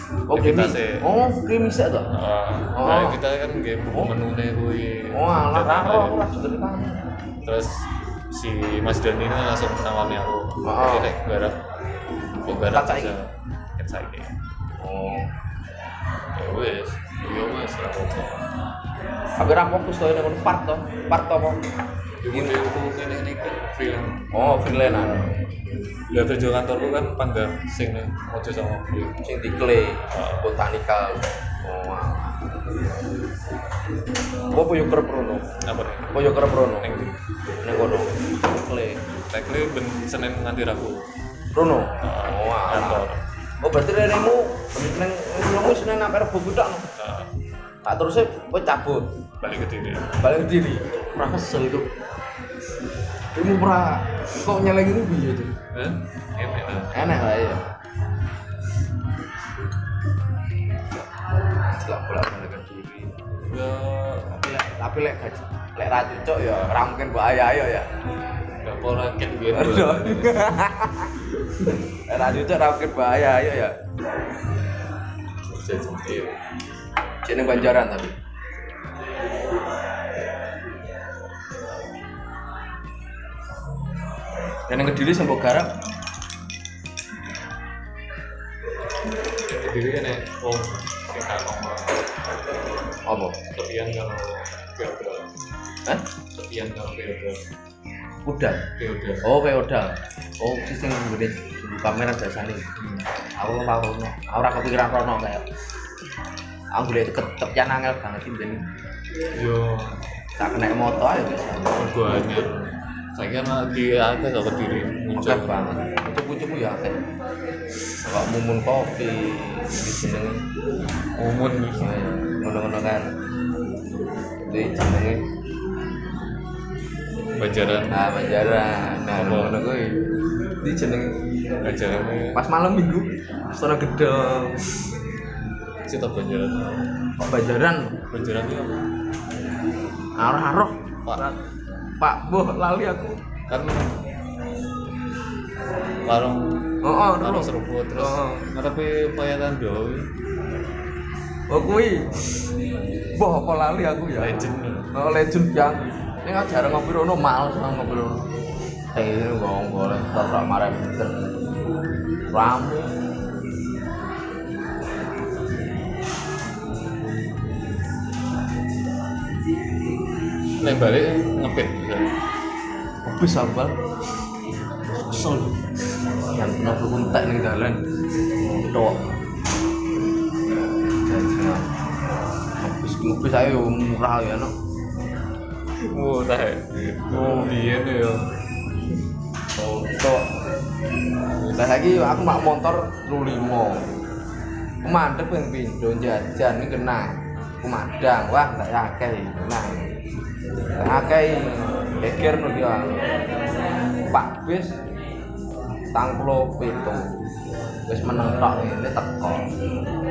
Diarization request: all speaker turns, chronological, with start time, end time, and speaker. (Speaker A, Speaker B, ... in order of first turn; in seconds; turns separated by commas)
Speaker A: 0.3-2.1, Speaker B: 0.3-1.1, Speaker B: 2.0-6.2, Speaker A: 2.7-3.2, Speaker A: 5.1-7.0, Speaker B: 7.4-11.6, Speaker A: 10.6-11.1, Speaker A: 12.4-13.1, Speaker B: 12.5-14.3, Speaker A: 14.8-15.3, Speaker B: 16.3-18.4, Speaker A: 19.4-21.6, Speaker B: 22.2-24.3, Speaker A: 22.3-22.6, Speaker A: 24.3-25.4, Speaker B: 26.1-29.2, Speaker A: 29.2-32.5, Speaker B: 30.1-30.5, Speaker A: 34.5-35.5, Speaker B: 35.6-37.2, Speaker A: 36.1-36.9, Speaker A: 37.6-39.0, Speaker B: 39.1-41.0, Speaker A: 41.5-46.8, Speaker B: 42.0-43.2, Speaker B: 46.9-47.3, Speaker A: 47.8-49.1, Speaker B: 49.4-50.1, Speaker A: 50.2-51.9, Speaker A: 53.3-55.5, Speaker B: 55.7-57.0, Speaker A: 56.9-57.7, Speaker A: 61.6-63.2, Speaker B: 63.4-64.4, Speaker A: 64.4-67.9, Speaker B: 68.6-70.5, Speaker A: 69.5-73.7, Speaker B: 75.5-76.3, Speaker A: 77.2-78.1, Speaker A: 84.7-85.7, Speaker B: 89.5-92.0, Speaker A: 93.0-93.4, Speaker B: 93.5-95.3, Speaker B: 96.4-97.4, Speaker A: 98.2-98.6, Speaker B: 98.8-99.2, Speaker A: 99.2-102.6, Speaker B: 102.8-103.0, Speaker A: 103.4-105.4, Speaker A: 106.7-108.6, Speaker B: 109.3-110.0, Speaker A: 110.4-111.9, Speaker B: 111.7-115.7, Speaker A: 115.2-117.0, Speaker A: 118.0-120.4, Speaker B: 121.2-122.0, Speaker A: 121.8-123.1, Speaker A: 124.4-125.2, Speaker B: 127.4-128.1, Speaker A: 127.9-130.0, Speaker B: 129.1-129.6, Speaker A: 130.6-131.1, Speaker B: 131.6-132.4, Speaker A: 132.3-134.7, Speaker B: 135.9-136.8, Speaker A: 137.2-138.0, Speaker B: 138.1-138.8, Speaker A: 140.2-141.3, Speaker A: 142.0-143.2, Speaker B: 143.5-143.9, Speaker B: 146.0-150.1, Speaker A: 146.8-148.4, Speaker A: 151.5-152.4, Speaker A: 153.2-158.2, Speaker B: 154.2-154.9, Speaker A: 158.9-161.2, Speaker A: 162.3-162.9, Speaker B: 170.6-172.1, Speaker A: 173.0-173.8, Speaker A: 174.9-175.6, Speaker A: 176.3-177.8, Speaker A: 178.4-179.1, Speaker A: 181.0-181.7, Speaker A: 182.6-184.5, Speaker B: 185.8-188.3, Speaker A: 189.5-190.3, Speaker B: 191.3-191.7, Speaker A: 191.5-193.8, Speaker A: 194.8-199.8, Speaker A: 200.7-203.2, Speaker A: 204.0-204.8, Speaker A: 205.9-207.1, Speaker A: 207.9-209.5